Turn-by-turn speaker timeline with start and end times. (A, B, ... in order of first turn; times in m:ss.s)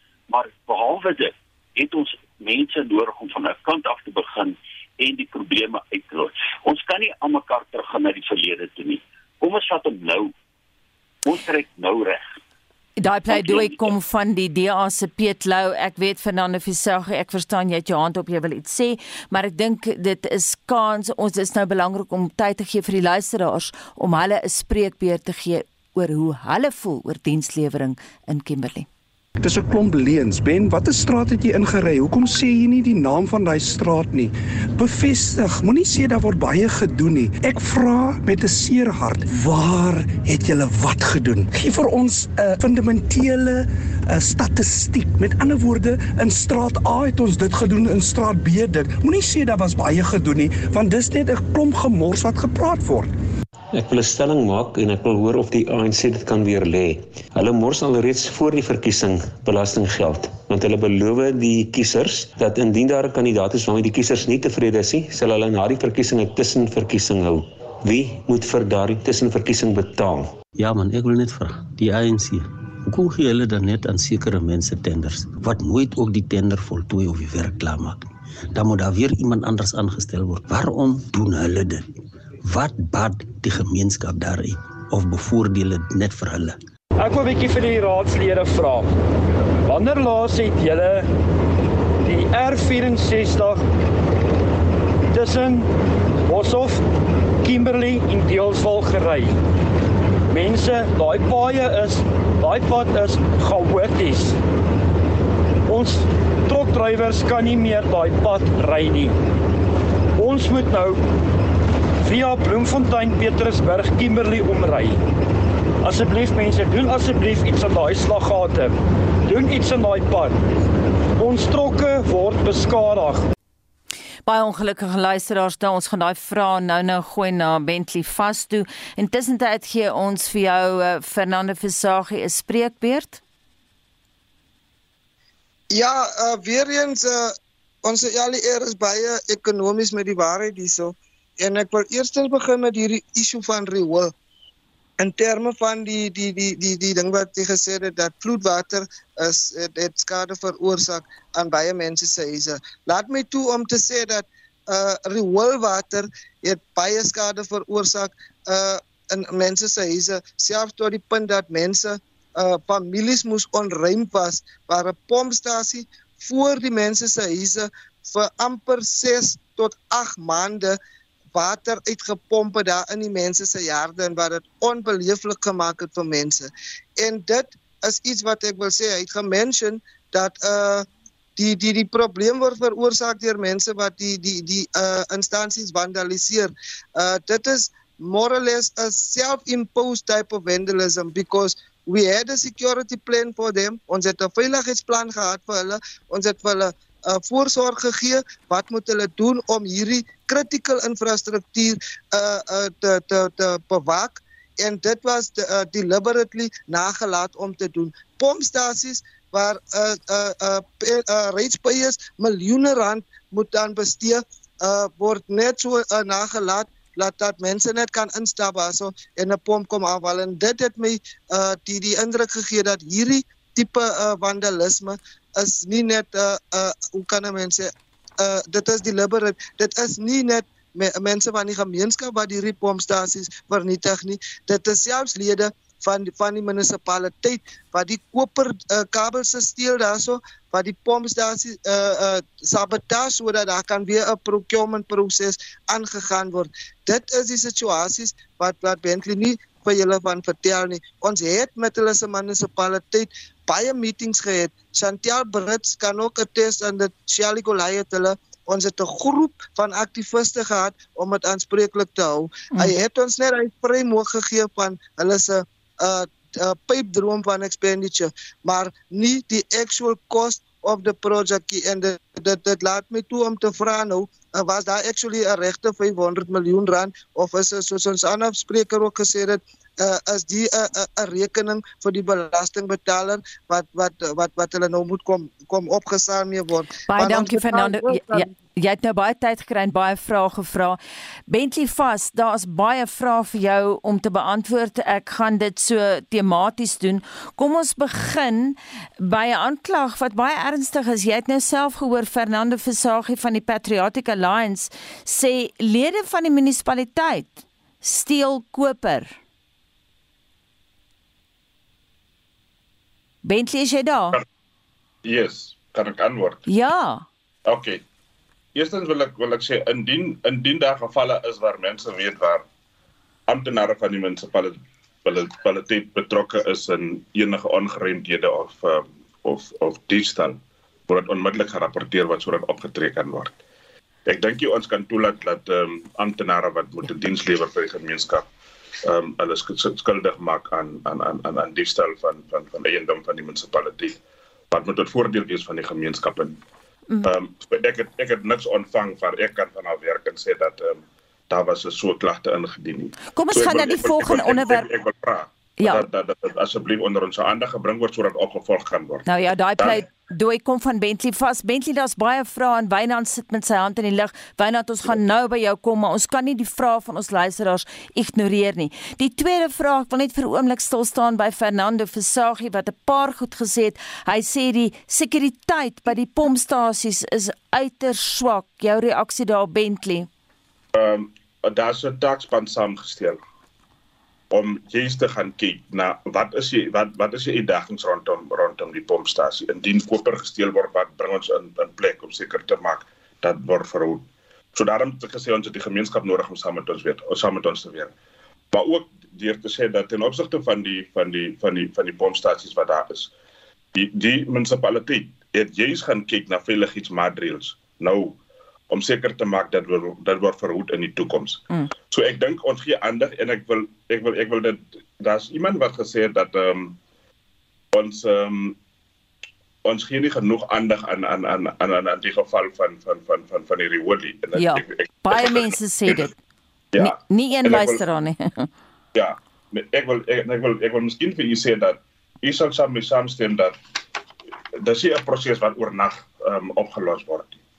0:00.3-0:10.3 A
0:11.2-0:12.3 A
0:13.0-0:28.9 B
0:13.3-0:13.9 A
0:29.4-0:53.1 C
0:53.7-1:10.4 D
1:10.6-1:21.9 E
1:22.4-1:26.6 E
1:27.0-1:28.9 F
1:29.6-1:31.1 F
1:32.0-1:33.6 F
1:35.1-1:35.7 F
1:36.3-1:36.9 F
1:37.4-1:39.3 F
1:40.3-1:44.4 F
1:45.7-1:49.1 F
1:50.2-1:51.0 F
1:52.0-1:55.0 F
1:55.8-2:00.4 F
2:01.2-2:03.2 F
2:04.2-2:13.2 B
2:15.7-2:24.1 G
2:25.0-2:50.8 G
2:51.3-4:48.3 G
4:46.9-5:09.1 B
5:13.2-5:14.2 B
5:15.0-5:16.4 H
5:16.5-5:17.0 B
5:17.4-5:17.8 H
5:18.5-5:22.4 H
5:23.3-5:33.4 H
5:34.0-5:38.2 H
5:38.8-5:44.0 H
5:44.5-5:46.4 H
5:47.0-5:59.0 H
5:53.1-5:54.7 B
5:55.6-5:55.8 B
5:59.1-6:20.1 B
5:59.6-5:59.8 H
6:20.7-6:23.2 H
6:24.3-6:37.9 H
6:38.5-6:43.1 H
6:43.7-6:56.8 H
6:57.7-6:58.6 H
6:59.6-7:05.5 H
7:04.3-7:06.1 B
7:06.7-7:07.8 H
7:06.8-7:08.5 B
7:08.9-7:13.6 H
7:14.6-7:17.4 H